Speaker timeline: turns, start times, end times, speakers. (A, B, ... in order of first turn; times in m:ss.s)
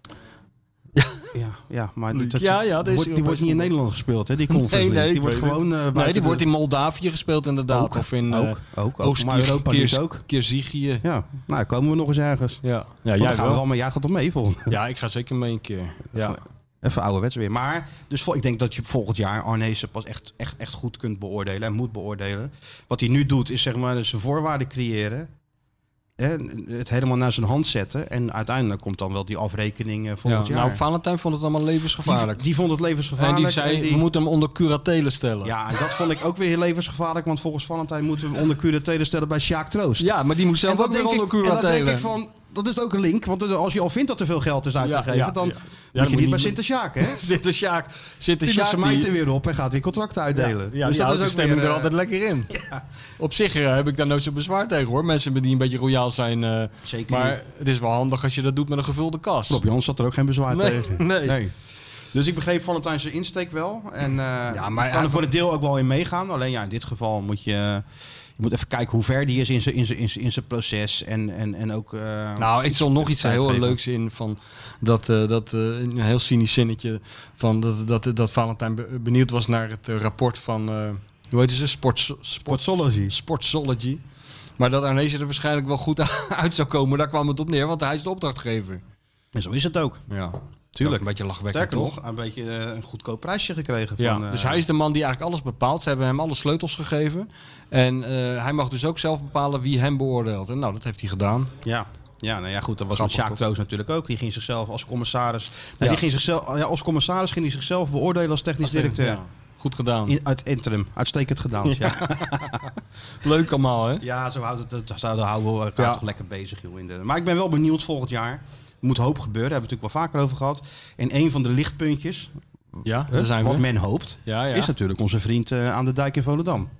0:01.0-0:01.3 A
0:01.3-0:06.4 B
0:02.1-0:03.7 A
0:04.5-0:11.0 A
0:07.7-0:10.2 B
0:11.0-0:12.6 B
0:12.6-0:13.6 A
0:13.2-0:14.8 B
0:14.7-0:16.4 A
0:16.2-0:25.3 B
0:26.2-0:30.8 B
0:30.2-0:32.4 A
0:32.0-0:34.0 B
0:33.2-0:35.5 A
0:35.4-0:47.2 B
0:40.0-0:42.1 A
0:44.8-0:49.1 A
0:48.4-0:51.9 B
0:50.3-0:52.5 A
0:52.5-0:52.8 B
0:53.2-0:59.6 A
0:56.8-0:57.4 B
0:59.5-1:01.5 B
1:00.5-1:01.4 A
1:02.1-1:07.8 B
1:04.5-1:05.3 A
1:08.4-1:13.8 B
1:12.4-1:24.0 A
1:22.5-1:23.2 B
1:24.6-1:28.8 A
1:29.3-1:30.0 B
1:30.1-1:31.9 A
1:30.7-1:34.6 B
1:34.0-1:41.5 A
1:41.6-1:49.2 B
1:42.9-1:43.4 A
1:48.6-1:50.2 A
1:50.1-1:52.7 B
1:51.6-1:54.0 A
1:54.0-2:02.3 B
2:02.8-2:03.7 A
2:03.1-2:06.7 B
2:04.2-2:04.7 A